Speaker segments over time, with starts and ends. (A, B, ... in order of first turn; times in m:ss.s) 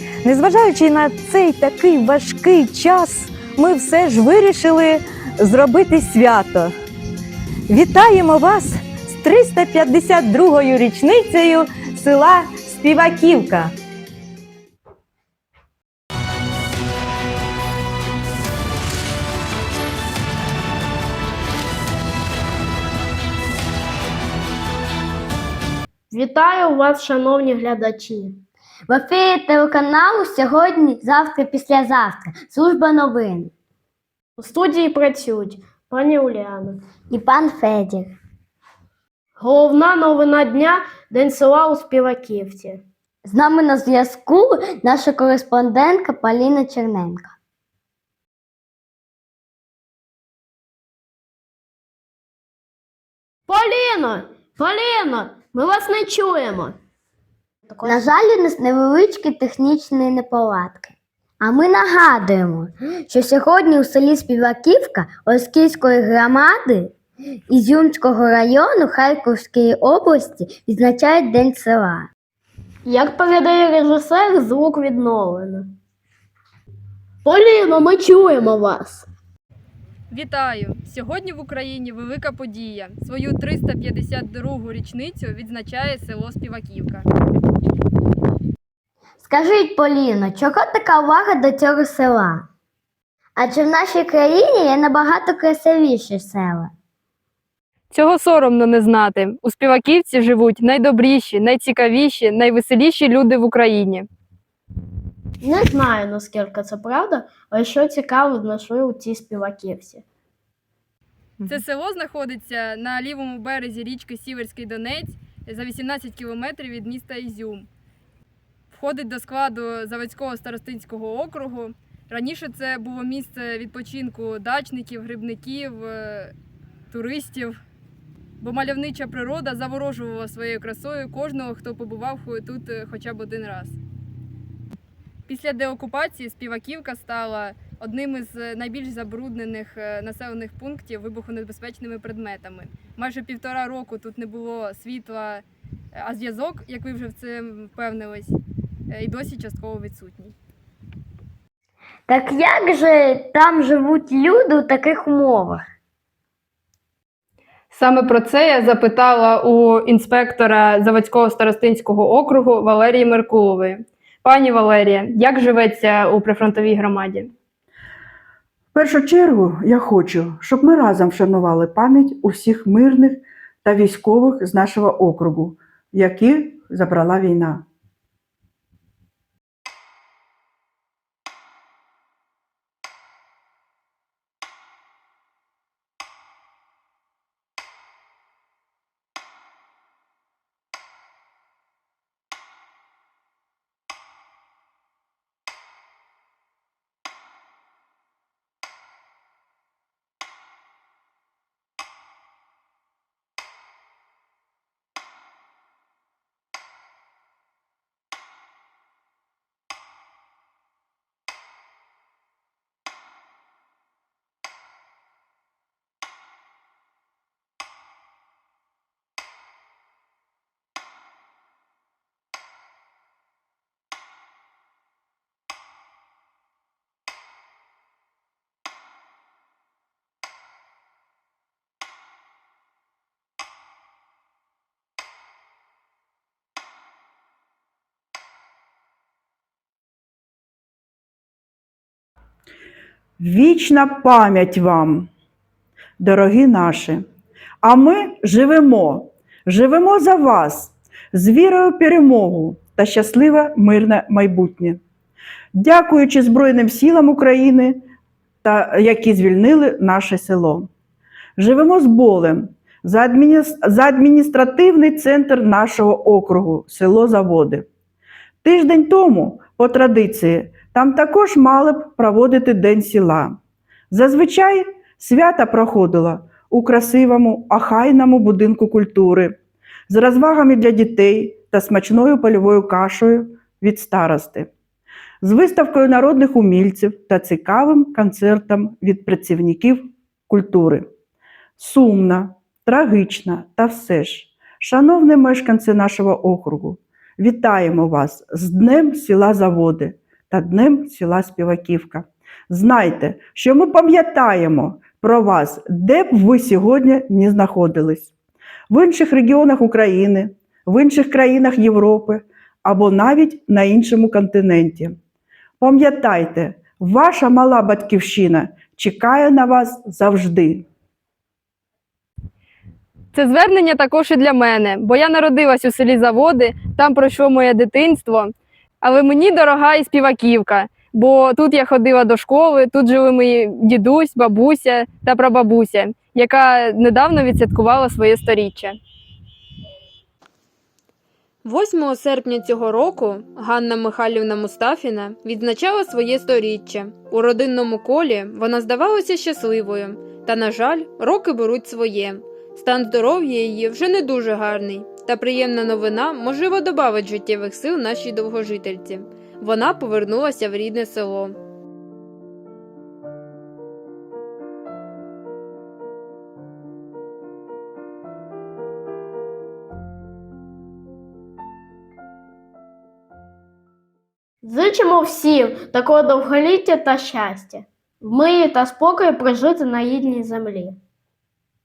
0:00.2-0:06.7 A
0:07.7-0:13.7 A
0:26.1-0:28.4 B
0:28.9-0:33.5 C
0:34.4-0:36.8 B
0:37.1-0:38.2 C
0:39.4-0:42.8 B
0:43.2-0:47.3 C
0:53.5-0:56.8 B
0:57.7-0:58.0 B
0:57.8-1:06.9 C
1:07.5-1:12.1 C
1:12.9-1:15.7 B
1:17.2-1:19.1 B
1:20.1-1:27.1 D
1:29.2-1:32.5 C
1:33.4-1:36.7 C
1:37.9-1:44.1 D
1:45.4-1:50.0 B
1:51.5-1:57.7 D
1:58.7-2:06.3 D
2:06.9-2:07.6 D
2:08.4-2:13.8 D
2:15.3-2:25.4 D
2:26.0-2:28.3 D
2:28.9-2:30.4 D
2:32.1-2:35.6 C
2:37.7-2:47.3 D
2:48.7-2:57.6 E
4:03.2-4:05.1 E
4:06.0-4:07.0 E
4:07.6-4:14.8 E
4:15.6-4:17.8 E
4:18.4-4:20.7 E
4:21.4-4:27.7 E
4:28.4-4:33.4 E
4:33.9-4:44.5 E
4:45.2-4:50.9 E
4:51.6-5:08.1 E
5:08.7-5:15.0 E
5:15.6-5:20.7 E
5:23.1-5:38.8 D
5:41.4-6:01.4 D
6:14.4-6:20.8 B